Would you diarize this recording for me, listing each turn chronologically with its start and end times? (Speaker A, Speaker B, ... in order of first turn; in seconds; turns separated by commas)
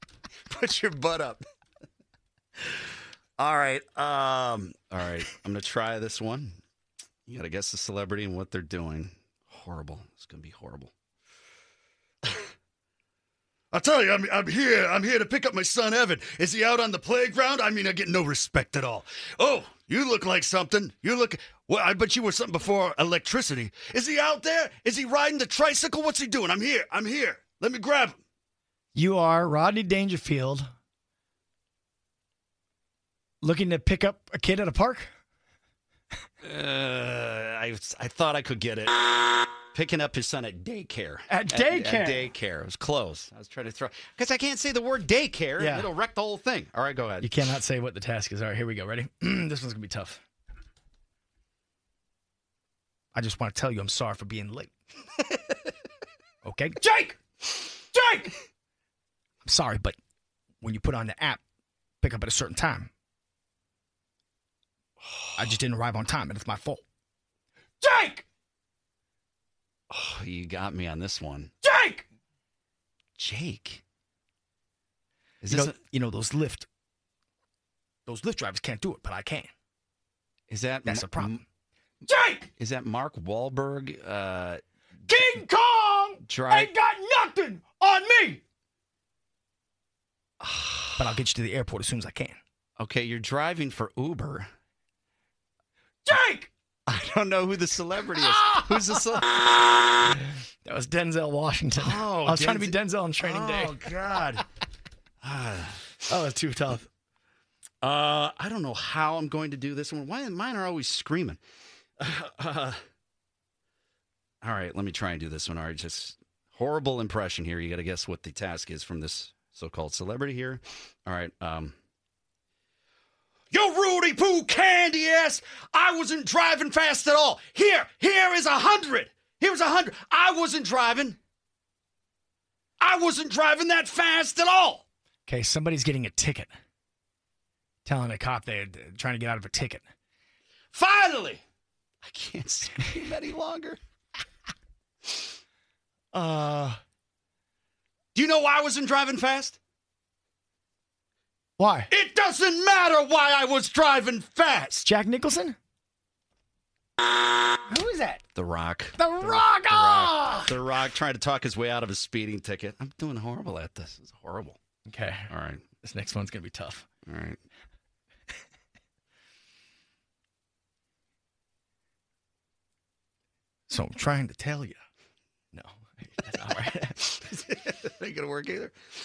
Speaker A: 0.5-1.4, Speaker A: 3.4-6.6, Speaker A: 7.3-10.9, Speaker A: 13.7-28.2, Speaker B: 28.9-30.6, Speaker B: 33.4-35.1, Speaker A: 36.4-47.3, Speaker B: 41.3-42.3, Speaker B: 45.6-45.9, Speaker B: 47.2-50.2, Speaker B: 53.1-54.7, Speaker B: 56.4-57.2, Speaker B: 57.9-58.3, Speaker B: 59.4-60.0, Speaker B: 60.6-61.4, Speaker B: 62.0-62.9, Speaker B: 65.4-66.8, Speaker B: 67.8-68.2, Speaker A: 69.9-71.5, Speaker B: 71.6-72.0, Speaker A: 73.2-73.8, Speaker A: 75.4-75.8, Speaker B: 75.5-76.7, Speaker B: 78.0-79.5, Speaker A: 80.5-81.4, Speaker B: 80.8-81.4, Speaker B: 82.1-82.5, Speaker A: 82.6-84.6, Speaker B: 85.1-88.4, Speaker A: 86.2-86.7, Speaker A: 90.4-91.1, Speaker B: 91.0-92.4, Speaker A: 92.8-94.5, Speaker B: 96.0-96.5, Speaker A: 96.9-99.6, Speaker B: 98.1-99.2, Speaker B: 100.6-103.8, Speaker A: 101.7-104.4, Speaker A: 105.2-105.9, Speaker B: 106.1-106.9, Speaker A: 107.8-111.4, Speaker A: 112.0-112.8, Speaker A: 114.4-121.7, Speaker A: 123.5-131.2, Speaker A: 132.8-134.8, Speaker B: 135.3-136.5, Speaker B: 137.8-139.8, Speaker A: 140.7-141.4, Speaker A: 142.0-143.8, Speaker B: 146.1-146.8, Speaker A: 148.1-149.6, Speaker B: 151.6-151.9, Speaker A: 151.9-154.9, Speaker B: 154.8-155.6, Speaker B: 157.7-158.2, Speaker A: 158.3-164.6, Speaker B: 159.0-160.5, Speaker B: 164.9-165.3, Speaker A: 165.3-165.6, Speaker B: 165.8-166.9, Speaker A: 167.1-167.4, Speaker B: 173.7-174.8, Speaker B: 175.5-177.1, Speaker A: 177.1-178.7